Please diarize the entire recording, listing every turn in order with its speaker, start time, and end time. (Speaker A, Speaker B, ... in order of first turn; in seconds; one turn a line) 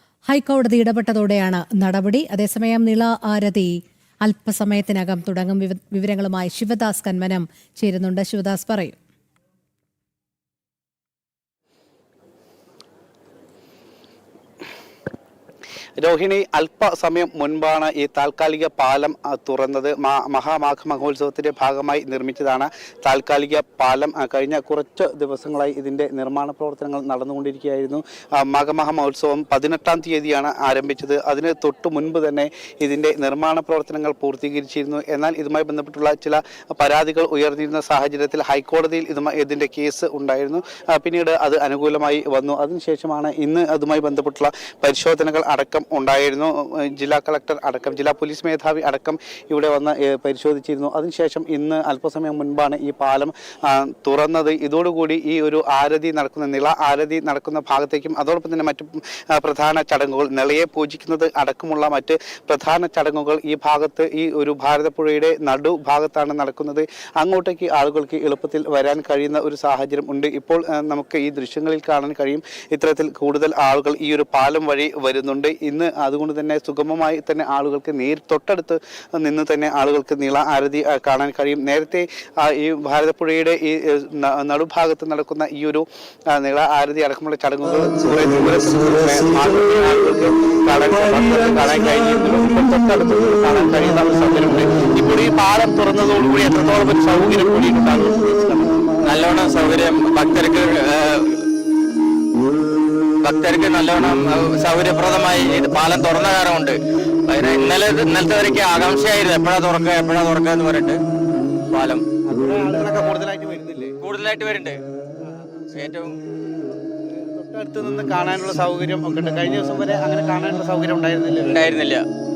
Speaker A: 0.3-9.0
Speaker B: 16.0-98.8
Speaker C: 99.0-101.5
Speaker C: 103.2-111.0
Speaker C: 111.7-112.1
Speaker B: 112.2-114.0
Speaker C: 114.0-114.8
Speaker B: 115.2-115.7
Speaker C: 115.8-116.2
Speaker B: 116.9-121.7
Speaker C: 121.4-122.0